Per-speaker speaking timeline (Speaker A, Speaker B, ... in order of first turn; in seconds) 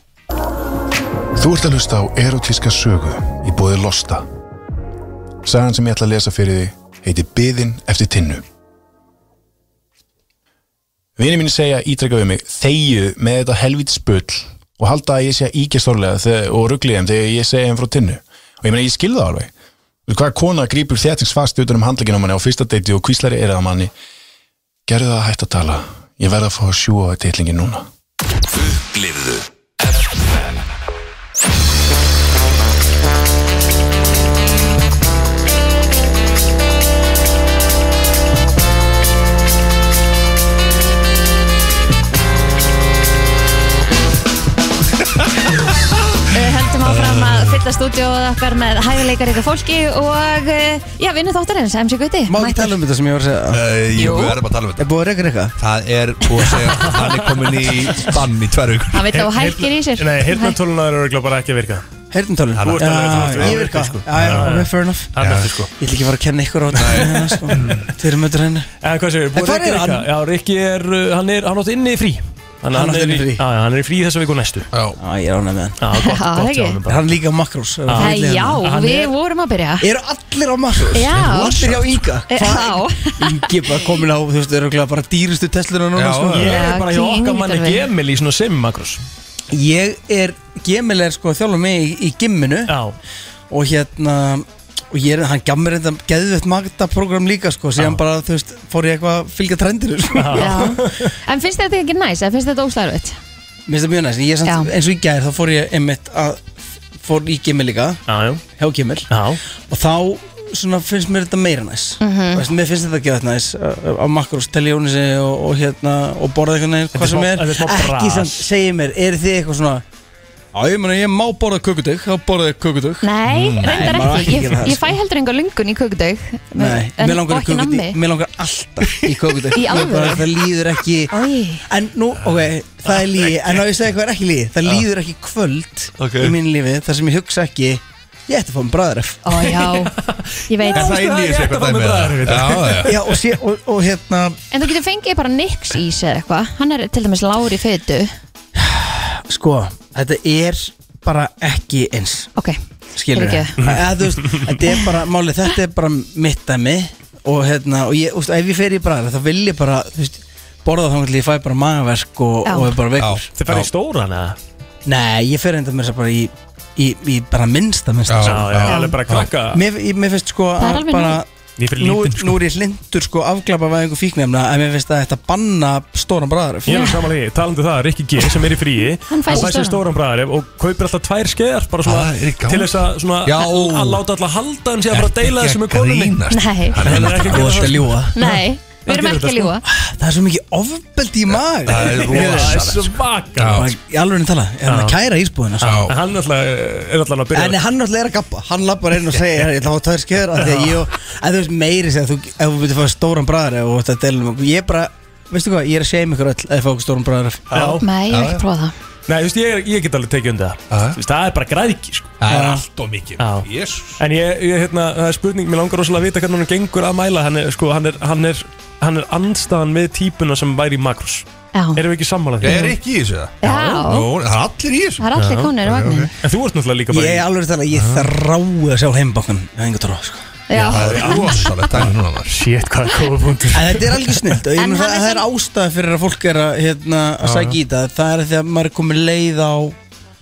Speaker A: 1.4-4.2, 5.4-8.4, 11.2-19.5, 20.1-23.9, 24.9-27.9
Speaker B: 28.5-30.6
Speaker C: 46.3-52.8, 53.9-54.4, 58.9-60.6, 76.0-76.8, 77.9-79.9, 80.9-81.8, 82.3-83.9, 86.4-87.9, 100.4-103.2, 104.4-104.7, 112.0-112.4, 123.0-128.0, 129.5-130.3, 131.1-131.6, 139.2-139.9, 140.5-141.0, 144.5-148.1, 153.1-153.6, 162.4-162.7, 168.7-168.9, 170.6-171.2, 176.7-177.0, 179.1-179.8, 186.3-187.4, 188.1-189.6, 207.8-208.7, 221.5-221.8, 223.4-224.1, 225.0-226.1, 230.5-231.6, 234.6-235.2
Speaker D: 46.9-47.2, 53.5-54.9, 55.6-59.1, 62.5-65.5, 66.7-67.9, 74.7-75.0, 80.8-82.2, 85.9-86.5, 123.2-124.1, 132.2-133.6, 136.0-136.4, 140.7-143.0, 163.0-163.7, 168.1-169.3, 181.8-184.0, 184.9-187.9, 191.3-193.7, 195.6-195.9, 207.5-208.4, 210.7-211.0, 212.2-214.0, 222.4-225.1, 225.6-226.1, 230.6-232.4, 237.2-237.6
Speaker E: 52.3-53.6, 54.8-55.5, 62.1-65.1, 65.8-68.7, 69.3-70.0, 72.7-73.4, 75.0-75.8, 76.9-78.6, 79.8-86.4, 89.5-92.7, 93.5-100.6, 103.7-106.5, 107.0-108.0, 108.6-109.1, 109.7-119.8, 120.5-123.0, 123.6-124.9, 126.6-131.1, 131.7-139.2, 142.9-144.4, 148.6-152.3, 152.9-163.3, 164.9-168.6, 169.5-171.2, 171.8-176.9, 187.4-188.1, 189.6-192.6, 193.6-195.8, 197.4-207.4, 212.3-212.6, 226.9-230.4, 233.6-239.8
Speaker F: 59.1-61.9, 62.6-65.7, 67.0-67.8, 68.8-74.7, 75.8-77.2, 77.9-79.1, 86.3-89.0, 92.7-93.0, 100.1-101.1, 108.1-108.4, 109.1-109.4, 116.9-118.5, 139.4-143.1, 153.6-154.4, 163.4-164.4, 168.2-169.6, 171.6-172.4, 176.7-186.2, 186.8-188.2, 188.9-189.6, 191.9-193.6, 194.7-195.0, 195.8-197.6, 200.4-200.8, 207.5-207.8, 209.1-212.2, 213.2-213.5, 214.0-222.8, 223.4-223.8, 225.2-225.6, 226.2-228.1, 230.5-234.2